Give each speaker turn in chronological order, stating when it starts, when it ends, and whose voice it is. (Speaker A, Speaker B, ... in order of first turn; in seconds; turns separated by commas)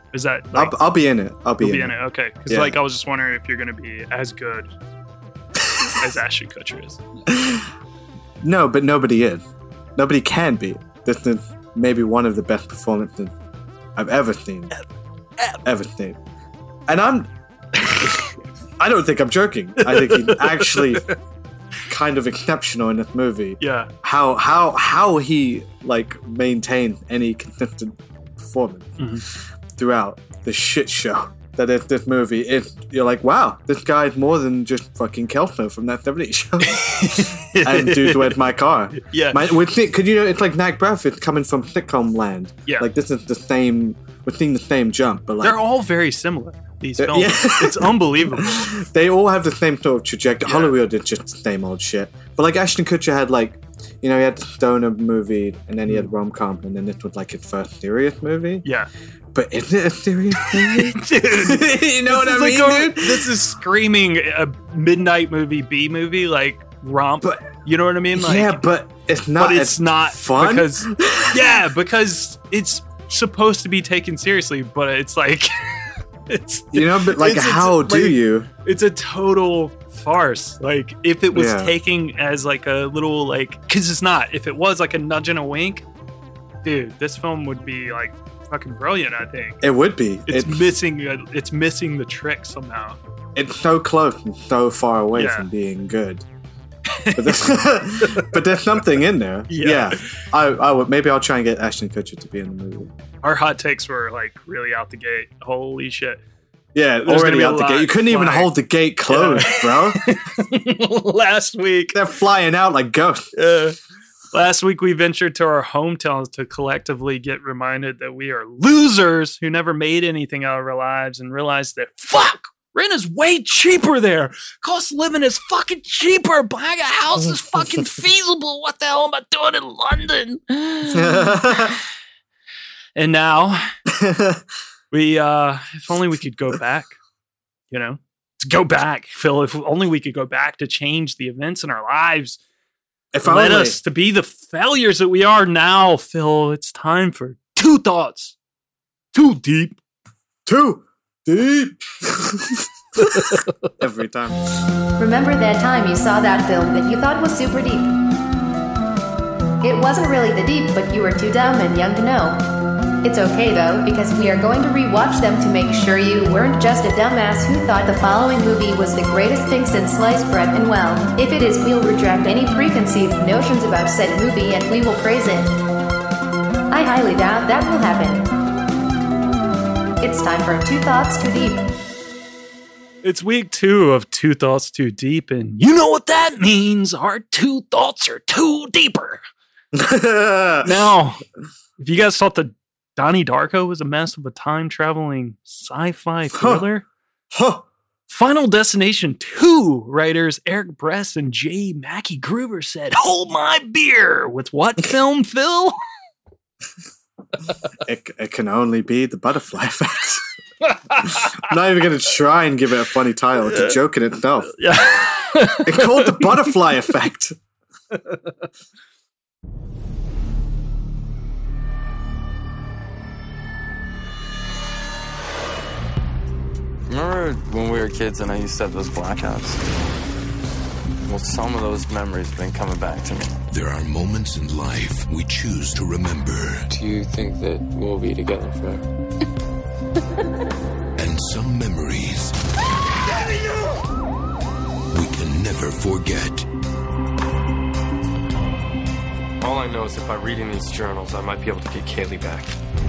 Speaker A: 0.1-0.8, Speaker B: 0.5-1.9, Speaker A: 1.6-4.7, Speaker B: 2.5-2.8, Speaker A: 5.8-7.0, Speaker B: 7.3-7.7, Speaker B: 8.4-9.4, Speaker B: 9.9-13.3, Speaker B: 13.9-14.7, Speaker B: 15.6-16.2, Speaker B: 16.9-17.3, Speaker A: 17.8-18.2, Speaker B: 17.9-18.3, Speaker B: 18.8-21.1, Speaker A: 19.8-21.1, Speaker B: 21.9-29.0, Speaker A: 23.6-23.9, Speaker A: 29.0-29.2, Speaker B: 29.8-45.6, Speaker A: 36.6-38.4, Speaker A: 38.9-39.5, Speaker A: 45.4-48.8, Speaker B: 47.0-58.6, Speaker A: 50.5-50.8, Speaker A: 58.6-58.9, Speaker B: 59.3-63.3, Speaker A: 60.4-68.6, Speaker B: 67.2-67.5, Speaker B: 68.1-71.4, Speaker A: 69.4-85.8, Speaker B: 76.7-78.5, Speaker B: 81.3-81.7, Speaker A: 86.6-89.6, Speaker B: 89.6-90.6, Speaker A: 90.3-93.0, Speaker B: 93.3-96.2, Speaker A: 95.1-95.5, Speaker A: 96.9-98.4, Speaker B: 97.1-102.9, Speaker A: 99.5-100.0, Speaker A: 103.2-106.2, Speaker B: 106.7-110.1, Speaker A: 107.0-108.5, Speaker A: 109.1-112.0, Speaker B: 111.9-113.2, Speaker A: 113.3-113.8, Speaker A: 114.3-131.7, Speaker B: 130.9-131.8, Speaker A: 132.9-133.7, Speaker B: 133.9-134.4, Speaker A: 134.9-136.9, Speaker A: 137.7-142.4, Speaker B: 143.1-143.8, Speaker A: 143.2-148.3, Speaker A: 149.1-149.8, Speaker B: 150.4-152.7, Speaker A: 153.0-153.5, Speaker B: 153.2-154.4, Speaker C: 155.0-157.9, Speaker C: 159.6-162.4, Speaker C: 163.0-175.5, Speaker C: 176.7-178.3, Speaker C: 180.0-181.6, Speaker A: 183.0-189.2, Speaker B: 189.7-190.7, Speaker A: 190.6-191.2, Speaker A: 191.8-196.8, Speaker B: 196.3-196.6, Speaker B: 197.3-197.7, Speaker A: 198.1-205.8, Speaker B: 207.8-210.2, Speaker A: 210.6-211.4, Speaker B: 211.3-214.5, Speaker A: 213.4-213.8, Speaker A: 214.5-216.6, Speaker B: 215.6-217.3, Speaker D: 226.9-229.6, Speaker D: 231.1-233.4, Speaker E: 233.5-236.8, Speaker D: 236.7-238.8, Speaker E: 241.0-242.3, Speaker E: 244.9-246.5, Speaker D: 249.4-252.5